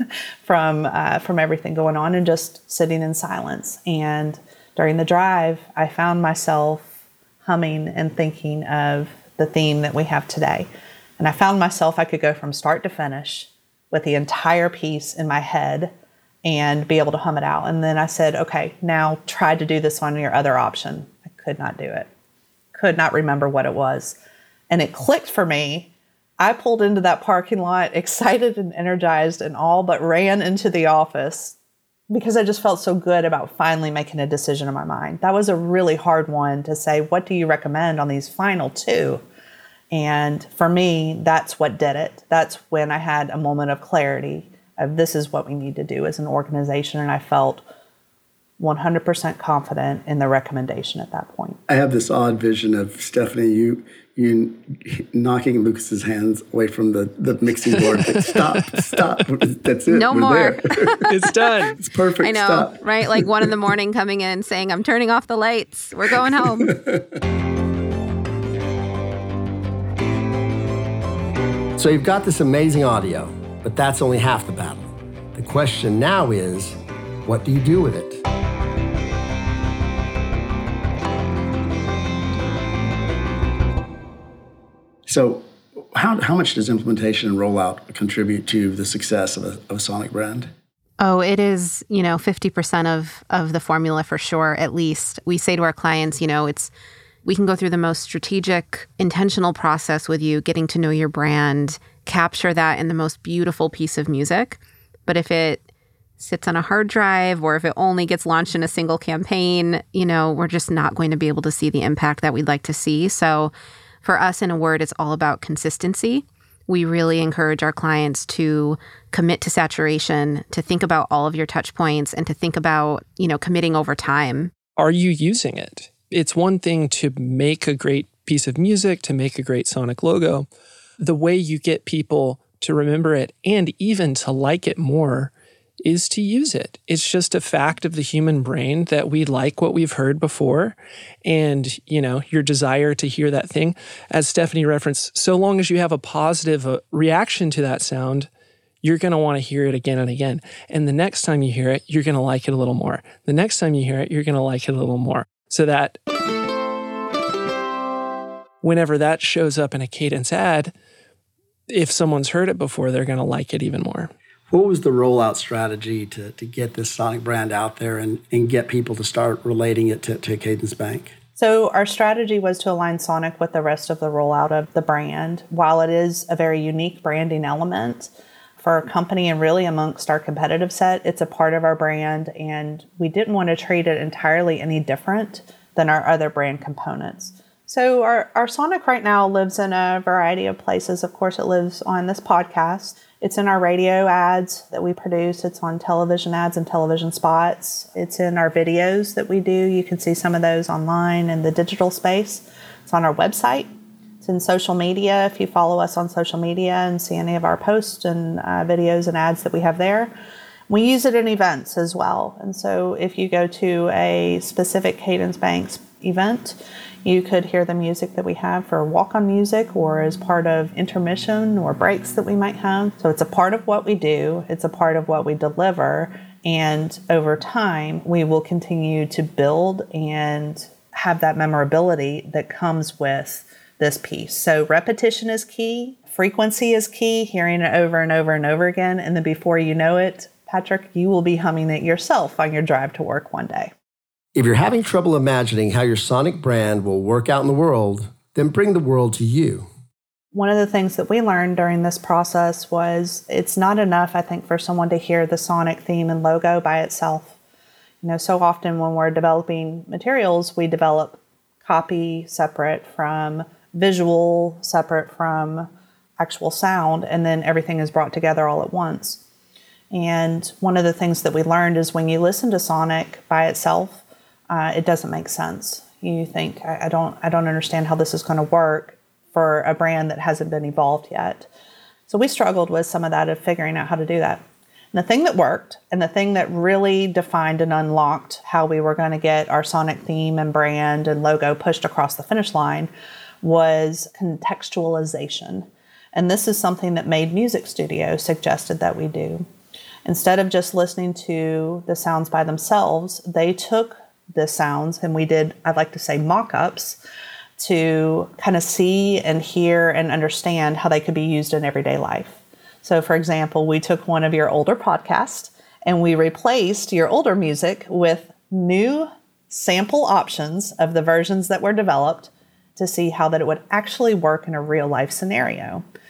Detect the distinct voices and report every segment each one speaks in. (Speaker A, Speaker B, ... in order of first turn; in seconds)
Speaker A: 0.4-6.9, 7.4-15.9, 16.4-22.1, 22.8-24.2, 24.7-31.6, 32.1-39.2, 39.9-47.6, 48.6-51.6, 171.4-203.7, 204.2-210.1, 210.7-243.7, 250.3-257.4, 258.0-265.7, 266.2-269.2, 269.9-281.5, 282.1-292.9, 293.4-299.5, 300.1-307.0, 307.6-325.8
Speaker B: 51.7-61.1, 61.8-63.6, 66.2-67.1, 85.1-90.5, 164.5-171.1
Speaker C: 59.9-61.5, 62.2-66.8, 91.0-96.7, 97.3-105.7, 106.2-124.5
Speaker D: 61.1-61.8, 124.8-130.5, 131.0-135.3, 135.8-148.3, 148.8-156.0, 158.6-160.7, 161.7-164.1
Speaker E: 71.8-78.2, 244.3-249.7